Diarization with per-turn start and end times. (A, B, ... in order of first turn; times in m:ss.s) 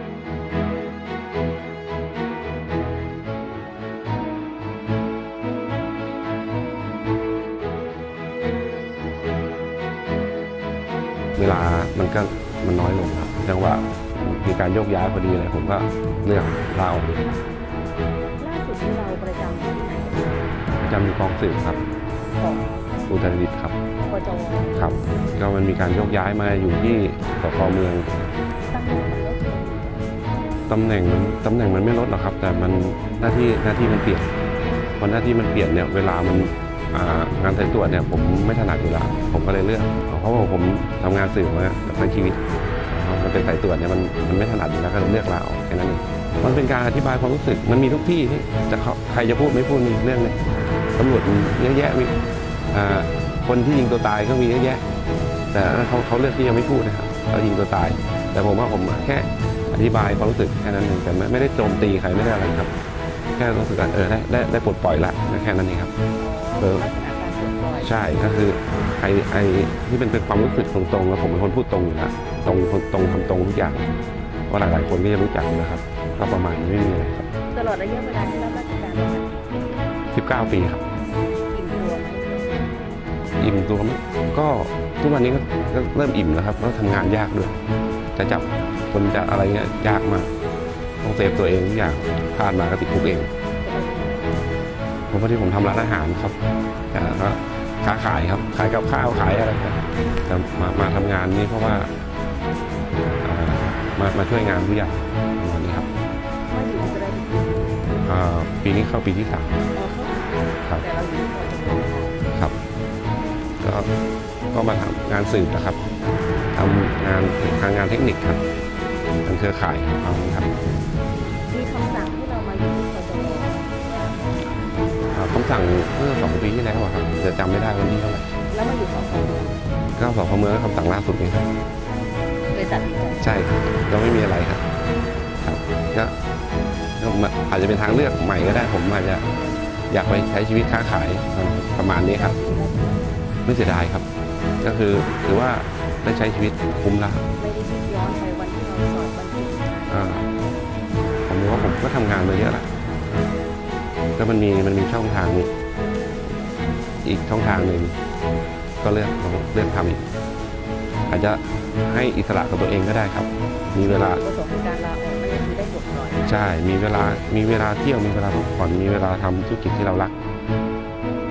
0:11.4-0:17.2 A
0:18.4-0:20.6 B
0:20.8-0:21.8 A
0:22.4-0:22.9 B
0:23.1-0:23.8 A
0:24.0-0:24.8 B
0:24.8-0:28.4 A
0:28.7-0:30.1 B
0:30.7-0:34.3 A
0:35.0-0:50.4 A
0:51.0-0:52.2 A
0:52.7-0:54.8 A
0:55.5-1:02.7 A
1:03.4-1:05.9 A
1:06.2-1:07.9 B
1:07.8-1:13.8 A
1:14.5-1:17.3 A
1:17.5-1:20.0 B
1:20.1-1:20.8 A
1:21.5-1:22.7 B
1:23.4-1:27.6 A
1:28.2-1:30.3 A
1:31.0-1:33.3 A
1:33.6-1:34.4 B
1:35.1-1:36.4 A
1:36.9-1:41.9 A
1:43.2-1:45.9 A
1:46.5-1:47.8 B
1:48.0-1:49.6 A
1:49.7-1:52.2 B
1:53.6-1:53.9 A
1:54.5-1:55.8 A
1:56.5-1:58.4 A
1:59.2-2:00.5 A
2:01.5-2:04.3 B
2:05.1-2:08.3 A
2:08.5-2:09.6 B
2:10.0-2:11.5 A
2:12.5-2:13.3 B
2:13.2-2:14.6 A
2:15.4-2:16.1 A
2:17.0-2:19.2 A
2:19.9-2:22.4 A
2:22.1-2:23.1 B
2:23.5-2:24.1 A
2:24.6-2:27.2 A
2:27.4-2:30.3 B
2:29.9-2:30.2 A
2:31.3-2:32.7 A
2:34.2-2:35.5 A
2:37.0-2:37.9 A
2:38.8-2:40.0 A
2:41.1-2:44.2 A
2:43.8-2:46.4 B
2:46.3-2:50.1 A